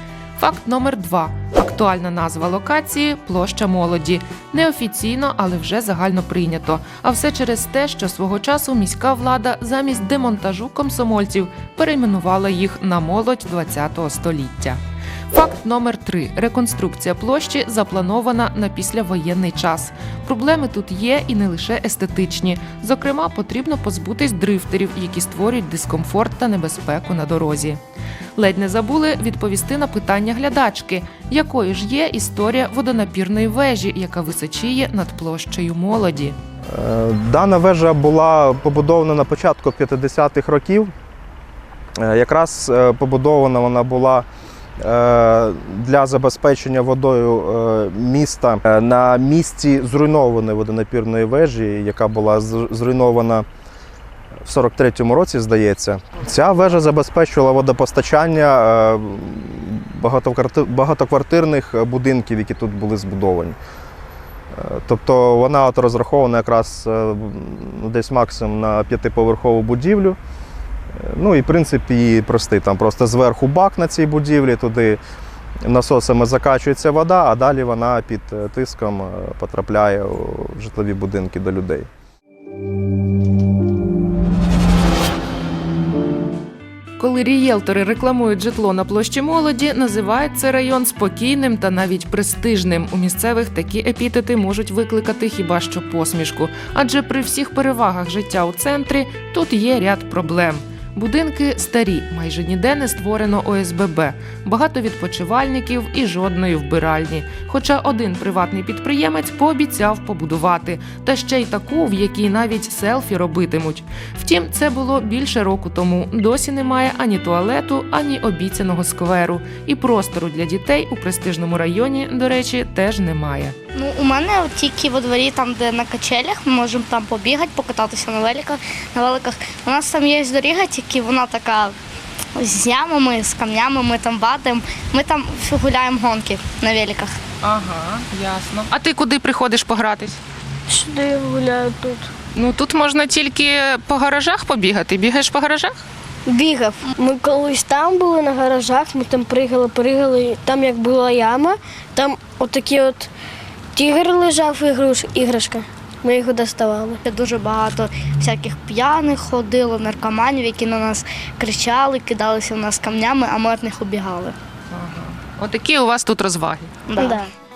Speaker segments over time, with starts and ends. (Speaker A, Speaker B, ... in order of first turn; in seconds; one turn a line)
Speaker A: 0.4-27.8
Speaker A: 28.4-36.4
Speaker B: 36.7-40.9
Speaker B: 42.0-44.3
Speaker B: 44.8-53.5
Speaker B: 54.4-63.6
Speaker B: 64.5-70.2
Speaker B: 70.9-75.0
Speaker B: 75.6-81.9
Speaker A: 87.0-123.5
Speaker C: 123.8-131.8
Speaker C: 132.3-137.2
Speaker A: 137.4-140.2
Speaker D: 140.7-142.1
Speaker A: 142.3-145.8
Speaker D: 146.3-153.1
Speaker C: 146.4-146.9
Speaker D: 153.8-157.0
Speaker C: 157.1-164.4
Speaker A: 164.7-166.8
Speaker C: 166.9-167.3
Speaker D: 167.0-167.3